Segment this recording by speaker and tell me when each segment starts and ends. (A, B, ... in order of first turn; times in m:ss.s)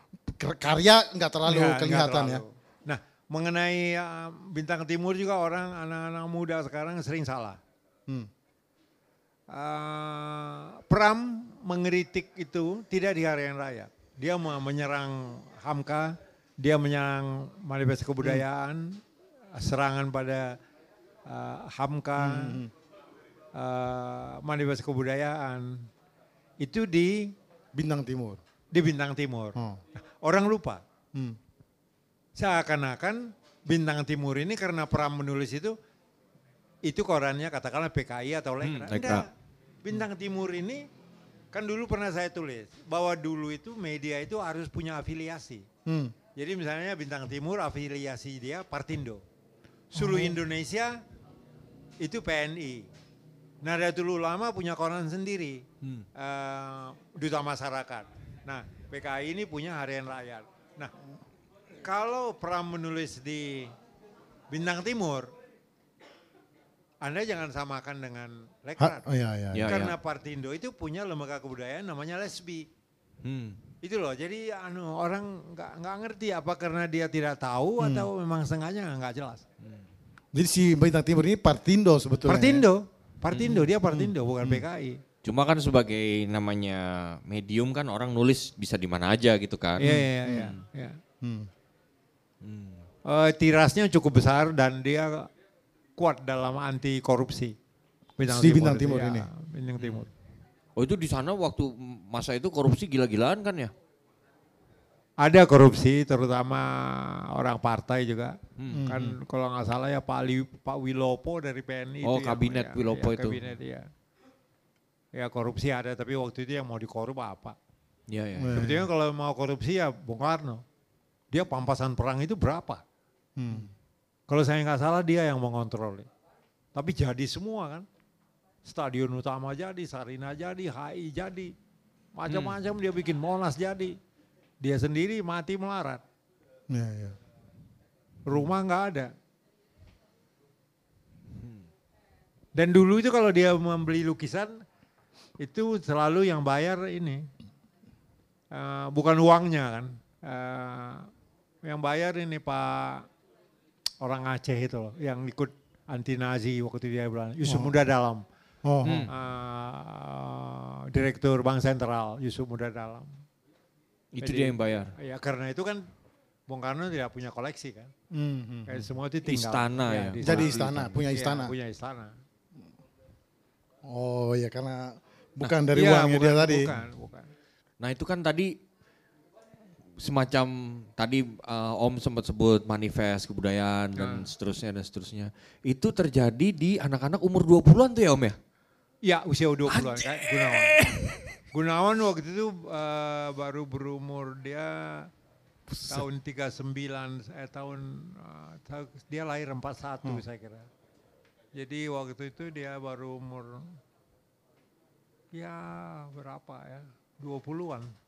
0:00.3-0:02.4 A
0:01.5-0:07.6 B
0:09.5-0:19.0 B
0:19.5-0:20.6 B
0:21.3-0:22.6 B
0:22.2-0:22.7 A
0:23.5-0:25.9 B
0:26.6-0:27.3 B
0:27.8-0:28.4 A
0:28.7-0:29.6 B
0:30.2-0:30.8 B
0:32.4-0:35.8 B
0:36.8-0:39.3 B
0:38.6-0:39.2 C
0:39.8-0:40.9 B
0:41.5-0:45.7 B
0:45.9-0:46.2 A
0:46.4-0:49.2 B
0:49.9-0:51.0 B
0:50.0-0:50.4 A
0:52.0-0:52.9 B
0:53.6-0:55.6 B
0:56.2-1:00.9 B
1:01.8-1:03.7 B
1:04.5-1:05.3 B
1:07.0-1:09.0 B
1:08.8-1:09.6 A
1:09.5-1:09.9 C
1:09.6-1:12.7 B
1:13.2-1:13.6 C
1:13.8-1:19.4 B
1:17.8-1:18.1 A
1:20.3-1:22.7 A
1:22.3-1:25.0 B
1:23.3-1:23.6 C
1:23.9-1:24.6 A
1:25.2-1:30.0 C
1:29.8-1:31.0 B
1:29.8-1:30.5 A
1:31.2-1:31.5 A
1:32.4-1:32.8 C
1:33.1-1:35.3 B
1:36.0-1:37.5 B
1:38.2-1:40.1 B
1:38.2-1:39.3 A
1:40.8-1:43.7 C
1:45.2-1:53.9 B
1:48.7-1:49.2 A
1:52.0-1:53.4 C
1:55.1-1:57.6 B
1:58.1-1:58.6 C
1:58.4-1:58.9 A
1:58.5-2:00.6 B
2:01.3-2:02.8 B
2:03.4-2:03.7 A
2:04.3-2:06.1 B
2:06.8-2:07.8 B
2:08.6-2:11.5 B
2:12.2-2:14.0 B
2:12.3-2:12.6 C
2:14.6-2:16.0 B
2:16.7-2:17.2 A
2:18.3-2:19.1 B
2:22.6-2:24.6 B
2:25.4-2:27.3 B
2:28.5-2:31.1 B
2:31.6-2:33.1 B
2:34.0-2:38.2 B
2:37.4-2:37.7 A
2:38.6-2:39.1 A
2:38.8-2:39.1 C
2:39.1-2:43.1 B
2:44.1-2:44.9 C
2:44.2-2:45.9 B
2:46.5-2:47.9 B
2:48.1-2:48.9 A
2:48.7-2:52.1 B
2:49.3-2:50.9 C
2:50.2-2:51.5 A
2:53.8-2:56.8 A
2:55.7-2:57.3 B
2:57.8-2:58.5 C
3:00.0-3:08.4 C
3:04.0-3:04.2 B
3:09.0-3:10.8 B
3:09.7-3:11.2 C
3:11.5-3:15.1 B
3:15.7-3:16.0 A
3:15.9-3:20.7 B
3:21.6-3:23.7 B
3:25.3-3:27.9 B